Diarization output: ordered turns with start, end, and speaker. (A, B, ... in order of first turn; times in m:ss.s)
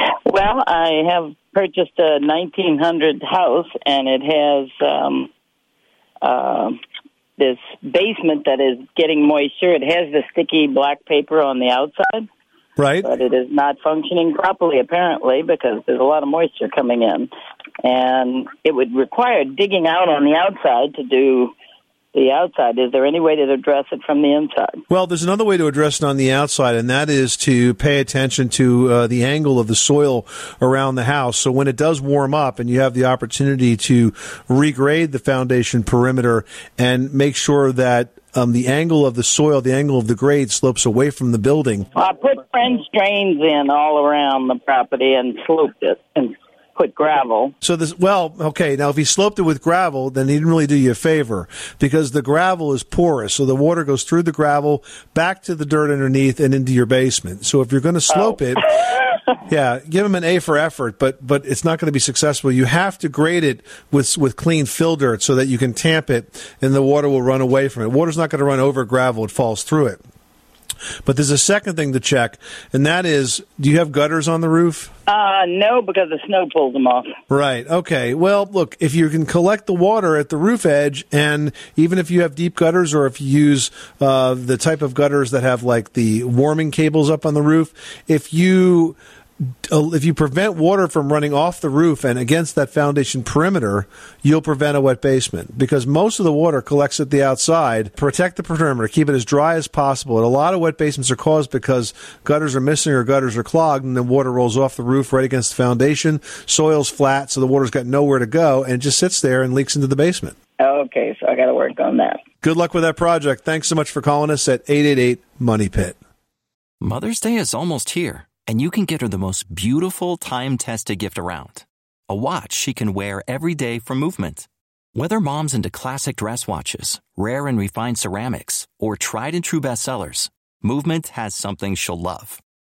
0:00.3-0:05.3 A
0:06.2-0:06.8 A
0:07.4-0:12.3 A
0:12.8-0:13.1 B
0:13.0-0:17.3 A
0:17.8-0:21.5 A
0:22.1-0:24.8 A
0:24.9-0:41.9 B
0:41.9-0:47.5 A
0:47.6-0:58.8 B
0:58.1-0:58.4 A
0:59.5-1:10.0 B
1:11.0-1:14.9 B
1:15.1-1:17.2 A
1:17.3-1:29.0 B
1:29.6-1:50.4 B
1:50.6-1:52.2 A
1:52.4-1:56.0 B
1:56.8-2:12.4 C